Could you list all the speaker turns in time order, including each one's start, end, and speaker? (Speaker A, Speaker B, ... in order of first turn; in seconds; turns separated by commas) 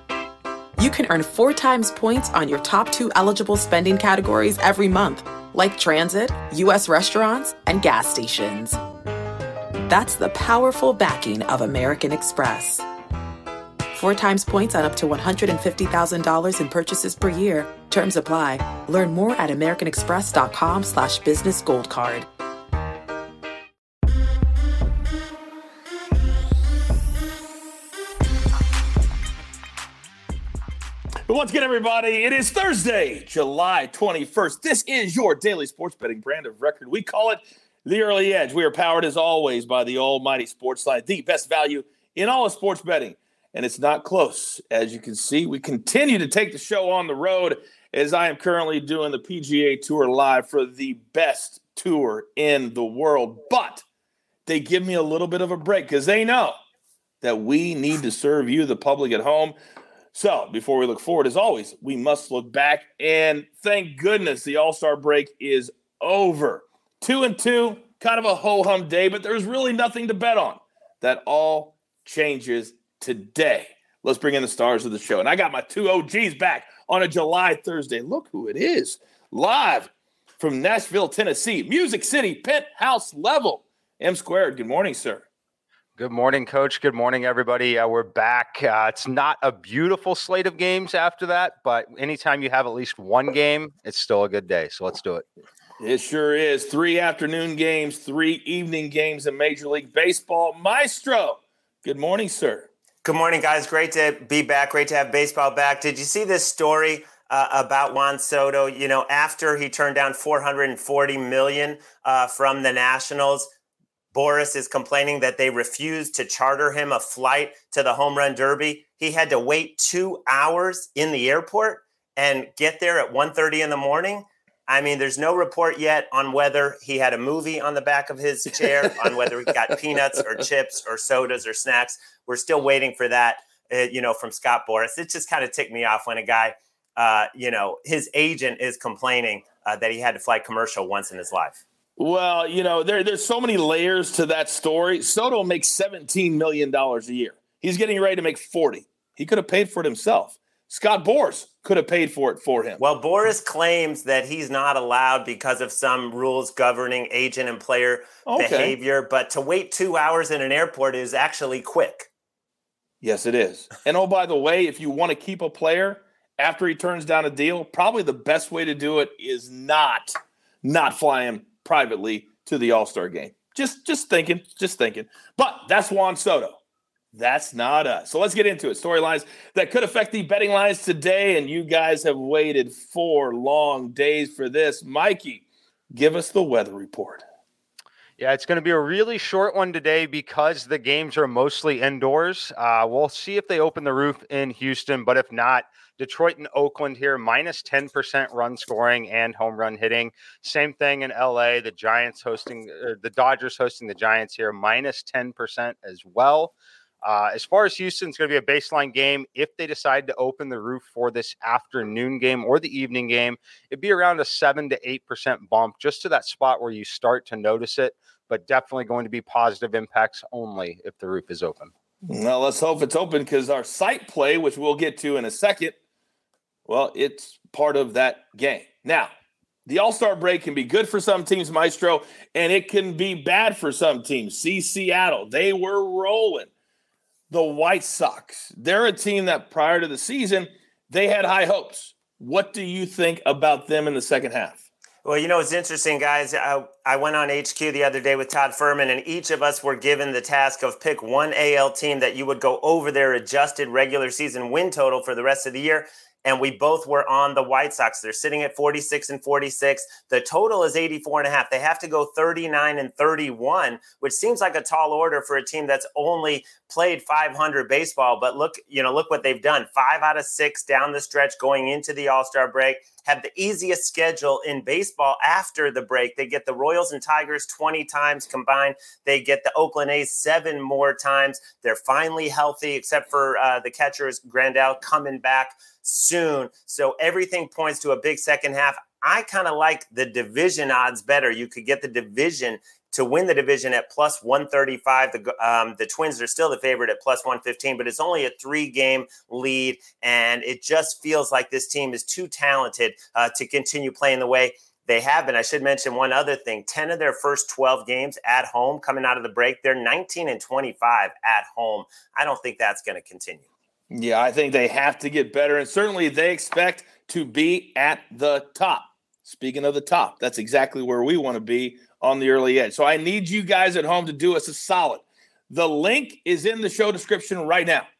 Speaker A: 0.8-8.8, Speaker A: 9.9-12.8, Speaker A: 13.9-22.3, Speaker B: 31.3-53.8, Speaker B: 54.5-56.5, Speaker B: 57.2-59.5, Speaker B: 60.1-85.3, Speaker C: 86.0-95.2, Speaker B: 95.8-102.7, Speaker D: 103.0-113.5, Speaker D: 114.1-141.6, Speaker B: 142.0-152.8, Speaker D: 152.8-162.1, Speaker B: 158.2-158.8, Speaker B: 163.0-176.6, Speaker B: 177.1-187.2, Speaker C: 188.2-221.7, Speaker B: 222.0-225.7, Speaker B: 226.7-229.1, Speaker B: 229.7-236.5, Speaker B: 237.3-244.6, Speaker D: 245.0-313.4, Speaker B: 313.9-327.9